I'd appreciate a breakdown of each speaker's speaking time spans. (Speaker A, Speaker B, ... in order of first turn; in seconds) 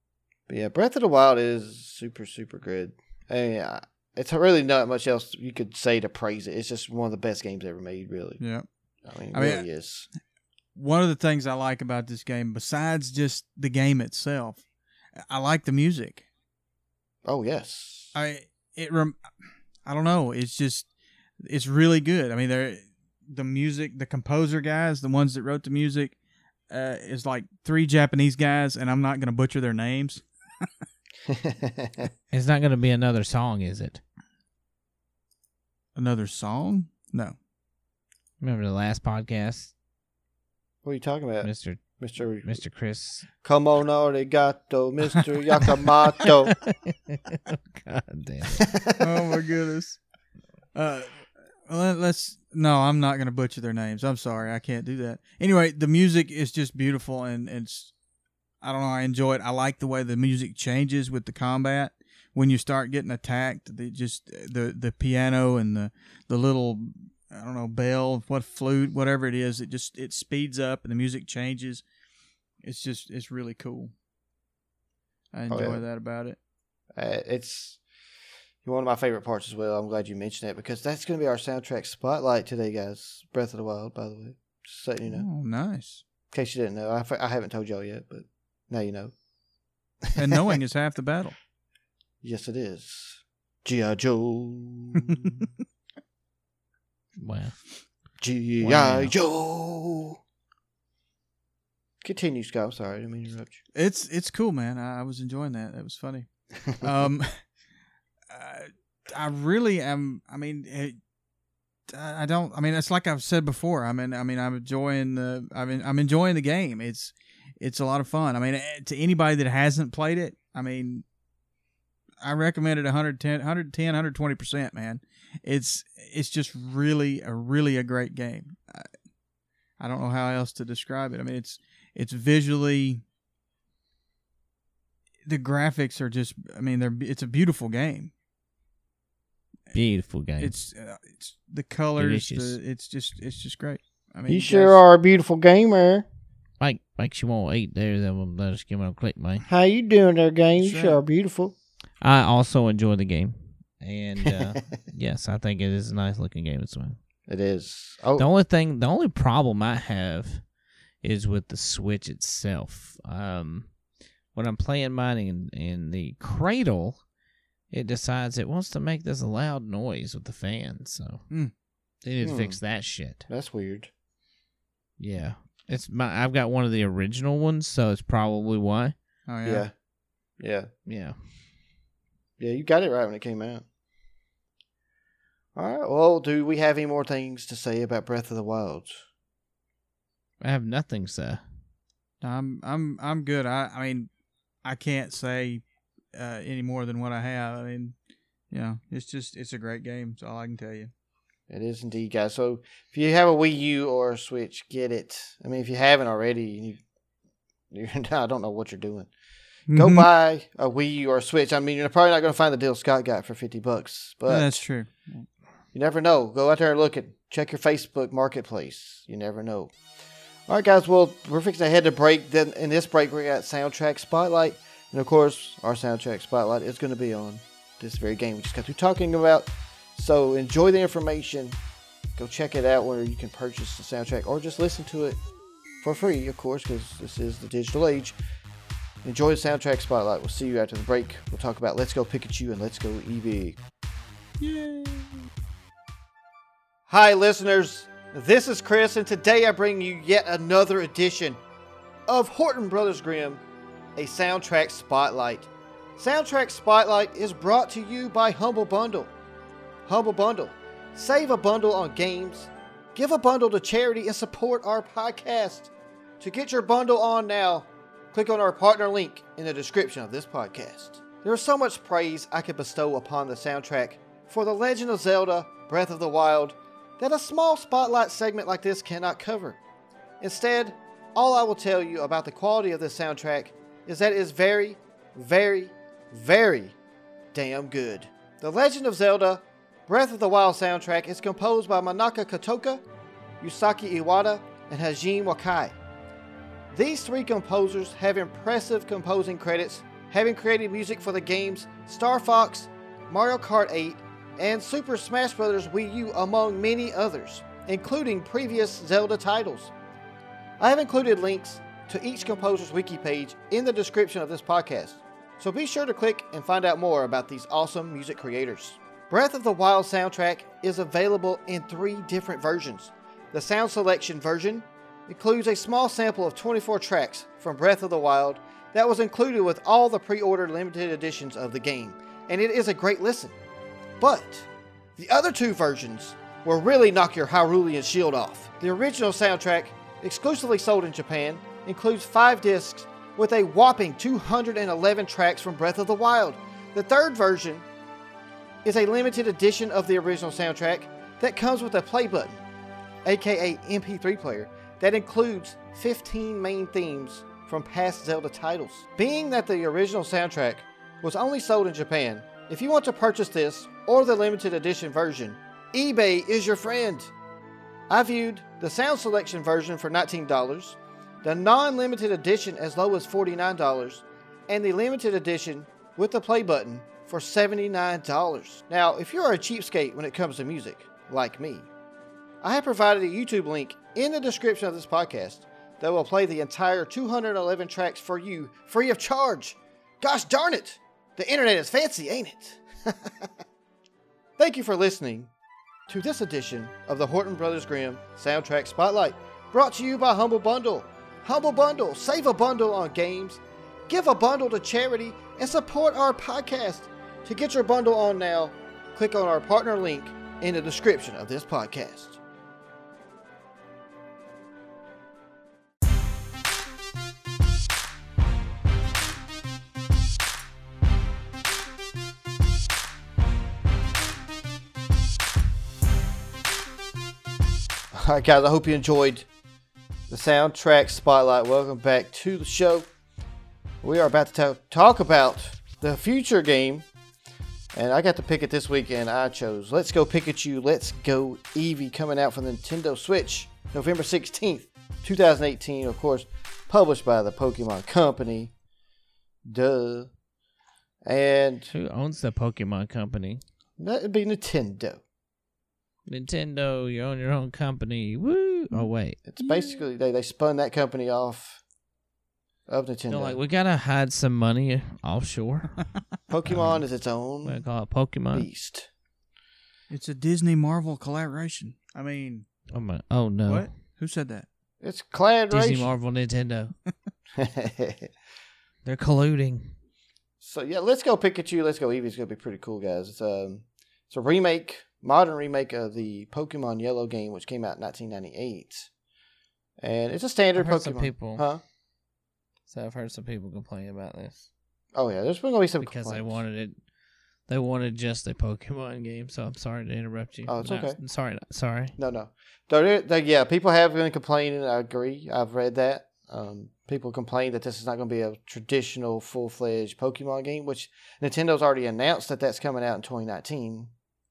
Speaker A: 0.5-8.4, 9.1-10.1, 17.2-18.1, 31.3-32.1, 40.8-42.6, 43.4-46.6, 48.6-49.1, 75.5-75.8, 77.0-77.8, 78.6-85.3, 86.3-89.1, 90.0-90.5, 92.2-95.4, 98.2-100.2, 102.0-103.6, 144.3-146.1, 149.5-151.6, 154.2-154.6, 157.3-158.3, 172.2-172.6, 173.3-173.9, 179.4-179.7, 180.4-180.7, 182.4-183.7, 185.6-189.0, 201.5-206.8, 207.7-209.1, 209.7-214.6, 215.7-219.7, 220.5-231.6, 232.2-235.2, 235.8-238.2, 239.0-243.6, 246.9-251.4, 252.1-253.4, 254.0-259.1, 259.9-279.6, 280.2-286.8, 287.3-292.8, 293.4-295.8, 296.7-309.7, 310.6-333.4, 334.0-347.7, 348.6-352.4, 353.1-367.1, 367.9-381.7, 382.4-393.3, 394.4-395.3, 395.9-412.2, 427.9-429.3, 430.1-432.9, 433.8-436.9, 437.7-448.5, 449.4-450.1, 451.0-451.7, 453.8-455.0, 459.3-461.6, 462.7-463.4, 466.3-467.6, 468.3-468.9, 474.8-475.9, 477.4-478.1, 480.4-488.9, 489.8-491.6, 494.9-496.4, 500.5-501.0, 502.0-513.9
Speaker B: 8.4-8.7, 9.3-9.7, 10.8-14.6, 15.2-16.2, 18.1-19.2, 19.9-20.9, 21.4-26.1, 26.7-30.6, 36.0-37.4, 49.0-50.0, 50.8-57.9, 58.6-71.8, 72.6-73.9, 75.3-76.4, 85.1-86.0, 90.2-91.3, 95.1-95.5, 103.7-107.4, 108.3-111.0, 111.9-121.0, 122.2-128.9, 129.8-133.0, 135.3-138.1, 140.4-144.8, 150.6-151.0, 179.3-179.7, 192.2-194.1, 194.6-195.6, 196.1-197.9, 198.5-200.9, 209.7-210.1, 214.3-215.3, 244.4-245.1, 469.9-472.5, 473.4-474.5
Speaker C: 32.3-34.0, 38.4-39.7, 41.4-41.8, 42.4-43.3, 46.6-48.7, 97.2-97.5, 98.6-99.1, 139.7-140.5, 142.0-142.6, 146.6-149.4, 152.0-157.0, 158.2-160.4, 161.0-163.7, 164.3-167.0, 167.7-171.2, 172.0-173.3, 175.0-178.9, 180.9-181.2, 190.4-191.4, 451.7-453.4, 456.1-459.2, 463.1-465.8, 466.5-466.8, 467.4-468.5, 472.7-473.7, 475.5-476.7, 478.9-479.7, 490.6-491.5, 492.7-494.5, 495.8-496.8, 497.5-501.9